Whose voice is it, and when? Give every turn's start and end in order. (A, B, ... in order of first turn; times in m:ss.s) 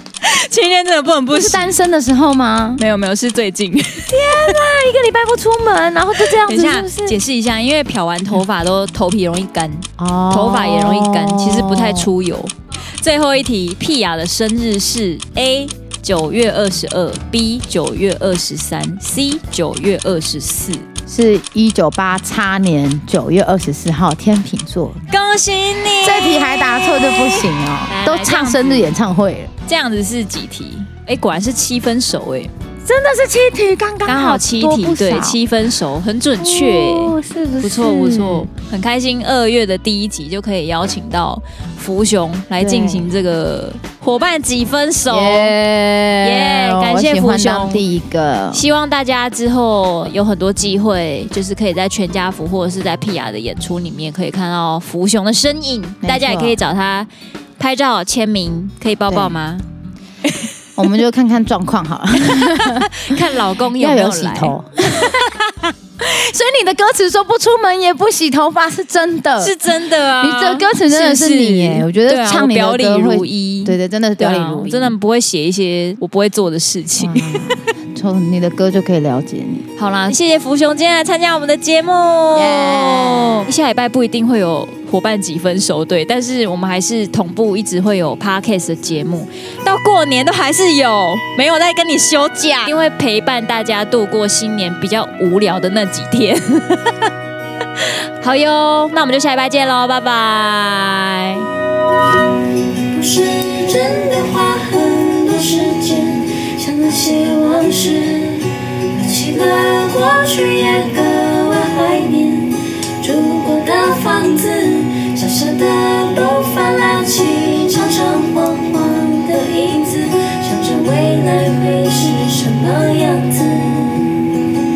0:00.2-0:01.7 A
0:01.3-0:02.8 B
0:02.8-0:04.1 A
0:04.1-0:07.2 B
0:06.4-0:20.9 A
0:10.0-0:12.1 B
0:21.1-0:25.0 B
0:25.1-0:28.9 A
0:26.0-0:29.5 B
0:29.6-0:32.5 A
0:32.8-0:35.4 B
0:34.0-0:45.6 A
0:36.4-0:38.5 B
0:42.6-0:43.1 B
0:45.1-0:48.6 B
0:46.2-0:47.8 A
0:48.5-0:59.6 A
0:56.0-0:56.6 B
0:59.1-0:59.3 B
1:00.8-1:03.2 B
1:02.3-1:04.5 A
1:03.8-1:15.0 B
1:09.4-1:17.6 A
1:17.0-1:19.6 B
1:19.8-1:37.1 A
1:22.3-1:23.5 B
1:37.8-1:41.5 A
1:42.9-2:04.2 C